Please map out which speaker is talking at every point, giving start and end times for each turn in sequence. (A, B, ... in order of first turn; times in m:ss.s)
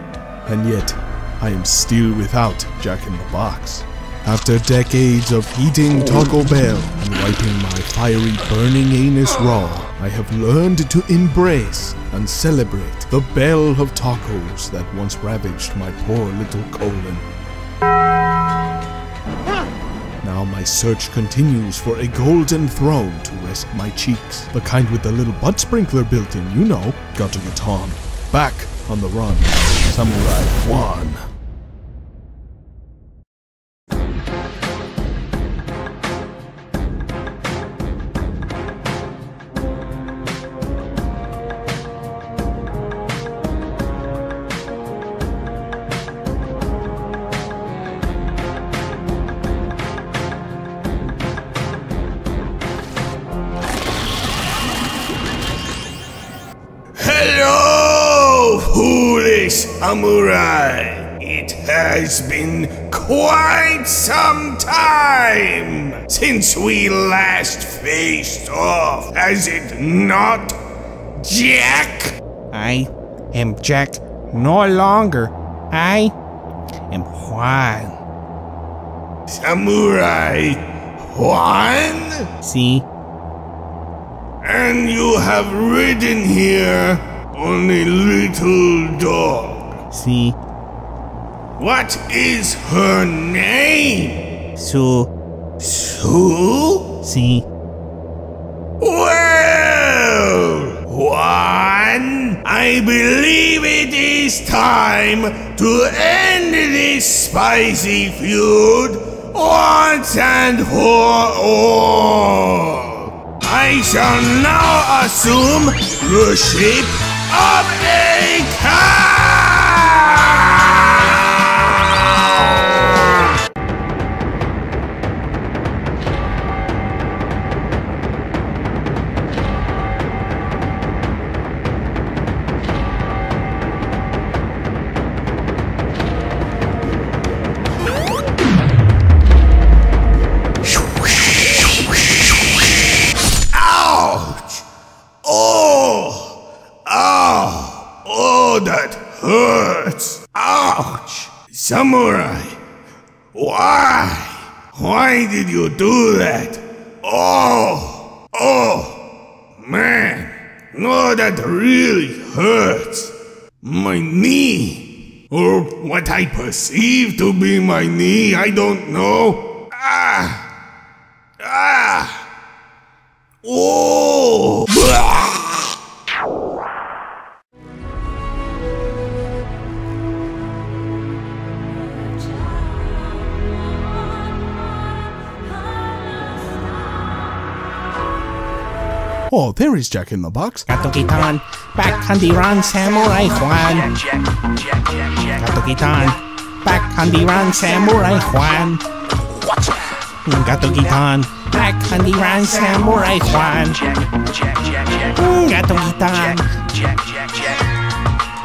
0:00.4-0:17.2 A
0:20.2-0:31.2 A
0:57.0-1:10.5 B
1:05.9-1:06.3 A
1:11.2-1:12.1 B
1:12.5-1:16.1 C
1:16.9-1:17.9 C
1:19.4-1:20.6 B
1:21.1-1:22.2 B
1:22.4-1:22.8 C
1:24.4-1:29.7 B
1:29.9-1:30.4 C
1:31.6-1:34.2 B
1:34.6-1:35.1 C
1:35.6-1:36.9 B
1:37.0-1:37.4 C
1:38.8-2:02.3 B
2:23.5-2:24.6 B
2:25.2-2:32.6 B
2:33.3-2:39.0 B
2:39.6-2:43.1 B
2:43.6-2:50.4 B
2:51.4-2:52.2 B
2:53.4-2:55.7 B
3:09.3-3:10.7 A
3:10.7-3:14.1 C
3:15.2-3:18.8 C
3:20.2-3:24.0 C
3:24.7-3:26.6 C